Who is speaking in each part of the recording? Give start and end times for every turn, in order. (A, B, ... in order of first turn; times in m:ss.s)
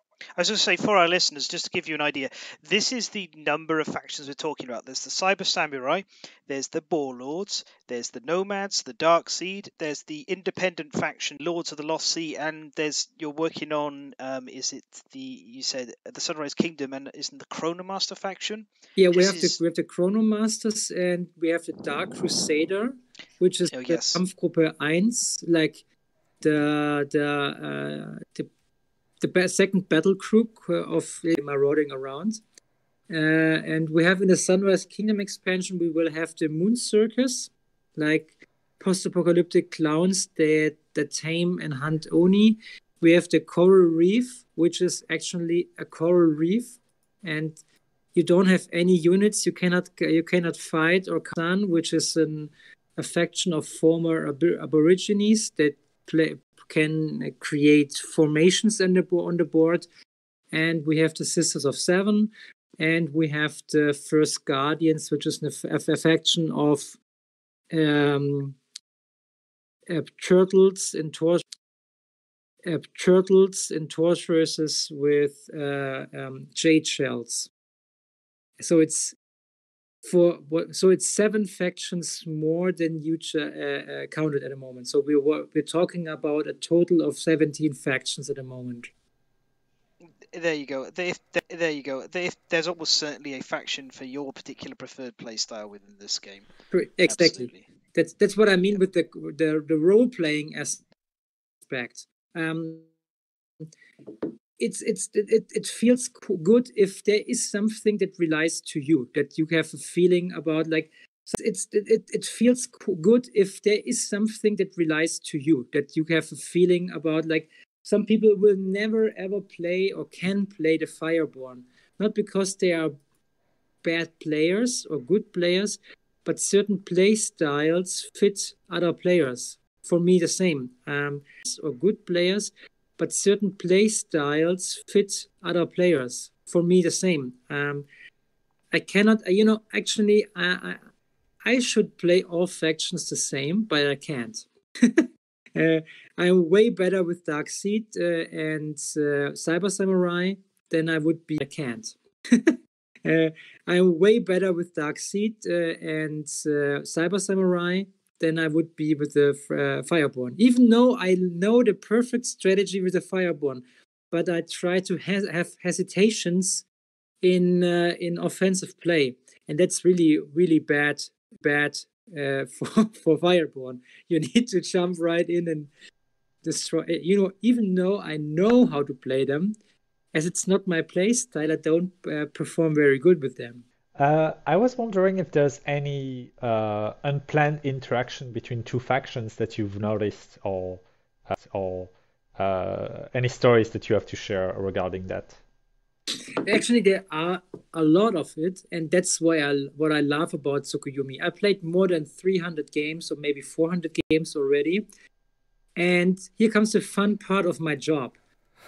0:00.4-0:19.6 A
0:19.0-0:25.8 B
0:23.7-0:24.2 A
0:26.4-0:28.5 B
0:29.2-0:32.4 B
0:33.1-0:47.6 B
0:48.1-0:59.8 B
1:00.5-1:07.0 B
1:07.7-1:08.6 B
1:09.9-1:11.4 B
1:12.6-1:17.5 B
1:18.6-1:19.2 B
1:20.0-1:28.9 B
1:30.3-1:36.5 A
1:36.7-1:40.8 B
1:37.1-1:37.6 A
1:41.6-1:42.9 B
1:44.6-2:02.9 B
2:03.8-2:17.8 B
2:18.7-2:20.8 B
2:21.4-2:46.6 B
2:47.2-2:55.7 B
2:56.4-2:59.5 B
3:00.1-3:03.6 B
3:04.0-3:15.4 C
3:16.4-3:24.8 B
3:25.8-3:28.1 B